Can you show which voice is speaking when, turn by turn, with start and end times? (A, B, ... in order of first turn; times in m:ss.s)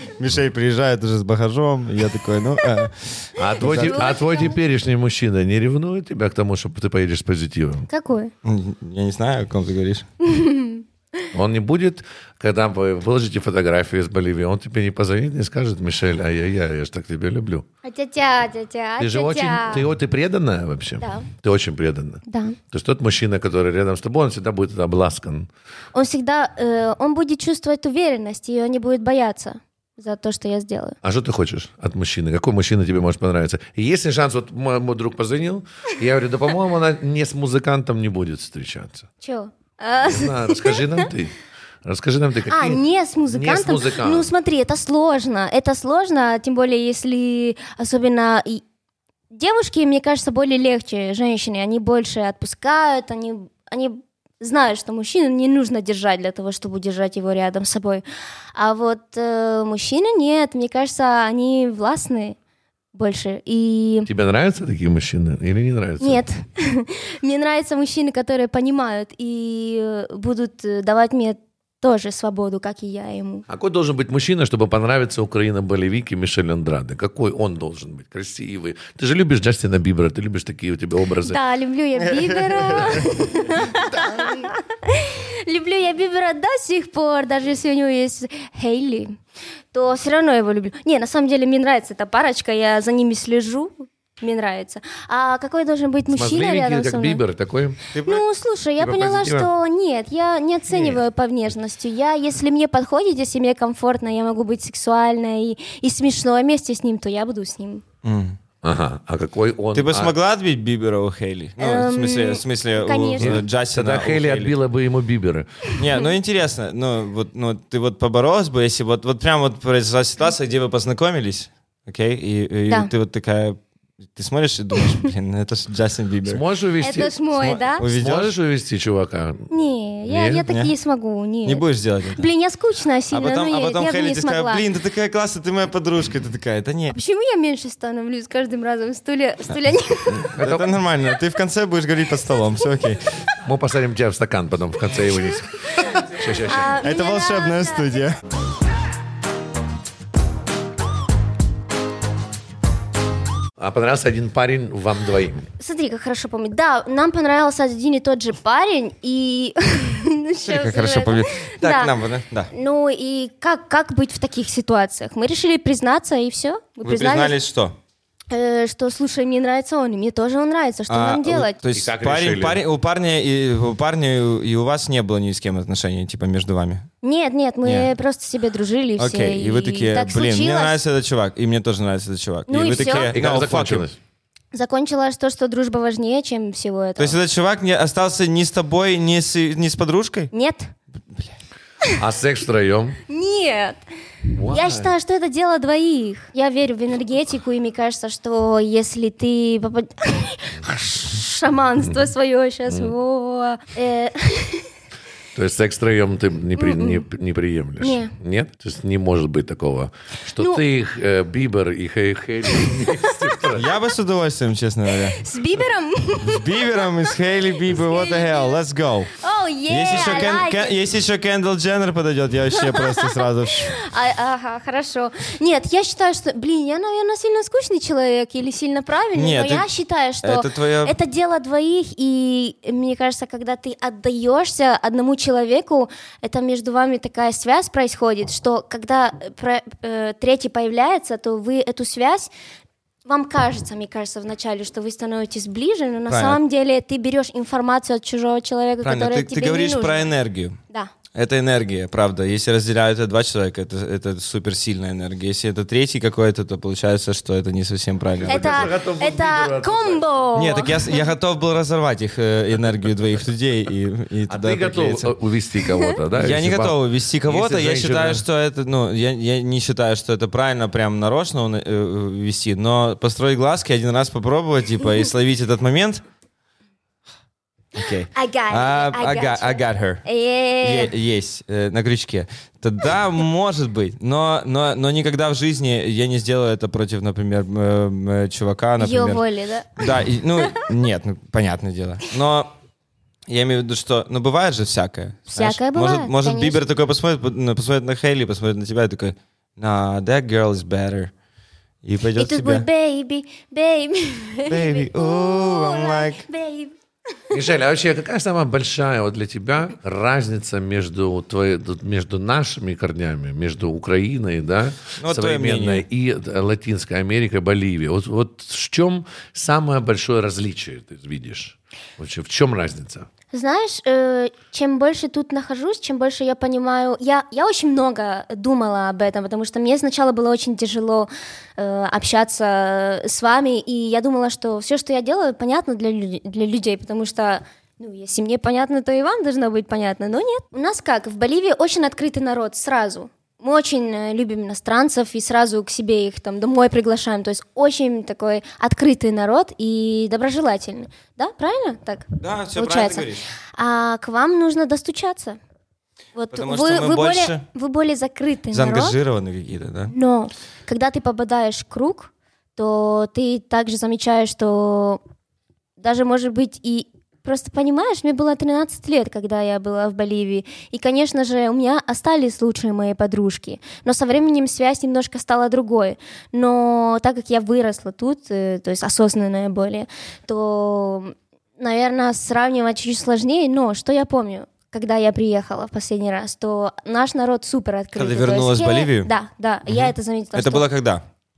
0:00.2-0:04.1 A
0:03.4-0:07.9 B
0:03.6-0:04.6 C
0:07.9-0:08.3 C
0:08.4-0:10.1 A
0:10.2-0:10.8 C
0:11.3-0:17.6 B
0:17.8-0:19.9 C
0:19.0-0:25.5 B
0:21.0-0:21.3 C
0:22.3-0:22.6 C
0:25.9-0:31.0 C
0:31.0-0:39.1 B
0:39.2-0:41.1 C
0:40.0-0:44.3 B
0:42.5-0:48.6 C
0:49.3-0:58.0 C
0:58.6-1:02.4 C
1:02.9-1:04.1 C
1:04.1-1:06.2 B
1:06.0-1:13.4 C
1:13.5-1:21.4 B
1:21.2-1:29.2 C
1:22.0-1:23.1 A
1:23.9-1:24.5 A
1:29.7-1:37.2 C
1:36.1-1:37.8 B
1:37.9-1:38.2 A
1:38.0-1:47.8 C
1:38.8-1:39.5 B
1:40.7-1:41.0 B
1:48.0-1:48.4 A
1:48.6-1:50.1 B
1:49.7-1:54.5 A
1:51.6-1:53.4 C
1:53.2-1:55.5 B
1:55.7-1:56.0 C
1:55.8-2:03.6 A
2:04.1-2:06.4 A
2:06.2-2:07.2 B
2:06.8-2:07.9 C
2:07.4-2:08.3 A
2:07.8-2:09.5 B
2:09.5-2:11.6 C
2:10.1-2:10.4 B
2:11.4-2:12.3 A
2:12.2-2:14.6 C
2:13.1-2:17.0 A
2:16.9-2:20.3 C
2:20.2-2:23.0 A
2:20.3-2:20.7 B
2:23.4-2:26.8 B
2:26.4-2:28.1 C
2:26.8-2:28.2 A
2:33.6-2:35.5 B
2:35.6-2:42.0 C
2:40.4-2:42.5 A
2:42.5-2:47.4 C
2:46.8-2:47.8 A
2:48.3-2:51.6 C
2:50.9-2:56.9 A
2:51.7-2:52.6 B
2:57.0-3:00.8 C
2:57.6-2:57.9 A
2:59.0-3:03.9 A
3:02.5-3:03.2 C
3:02.8-3:04.0 B
3:04.5-3:07.2 C
3:07.0-3:10.3 A
3:10.3-3:10.7 C
3:12.0-3:13.0 B
3:13.1-3:13.8 C
3:14.4-3:14.9 B
3:14.4-3:24.7 C
3:22.7-3:22.9 B
3:25.4-3:33.7 B
3:26.6-3:27.0 C
3:27.8-3:28.1 C
3:32.5-3:33.2 C
3:33.5-3:35.2 A
3:35.1-3:38.6 C
3:36.2-3:39.1 A
3:39.1-3:40.8 C
3:39.7-3:43.8 A
3:42.6-4:02.3 C
3:49.2-3:49.7 A
3:50.2-3:50.9 A
4:03.1-4:10.1 C
4:06.1-4:06.4 A
4:08.8-4:10.6 A
4:11.1-4:18.7 A
4:18.2-4:20.2 B
4:18.3-4:21.0 C
4:20.4-4:25.1 A
4:24.3-4:28.2 B
4:25.7-4:26.0 C
4:26.1-4:36.0 A
4:37.8-4:40.0 A
4:38.1-4:40.9 C
4:40.6-4:49.2 A
4:48.8-4:49.9 C
4:49.8-4:52.5 A
4:53.3-5:01.1 A
4:55.3-4:56.6 C
5:01.8-5:02.7 A
5:02.2-5:07.4 C
5:04.5-5:06.2 A
5:07.3-5:23.1 B
5:15.0-5:15.8 A
5:23.3-5:55.4 C
5:52.2-5:53.3 A
5:56.2-5:59.0 C
5:56.3-5:57.4 A
5:58.5-5:59.9 A
5:59.9-6:05.0 C
6:05.8-6:30.7 C
6:28.0-6:29.1 A
6:29.7-6:31.0 A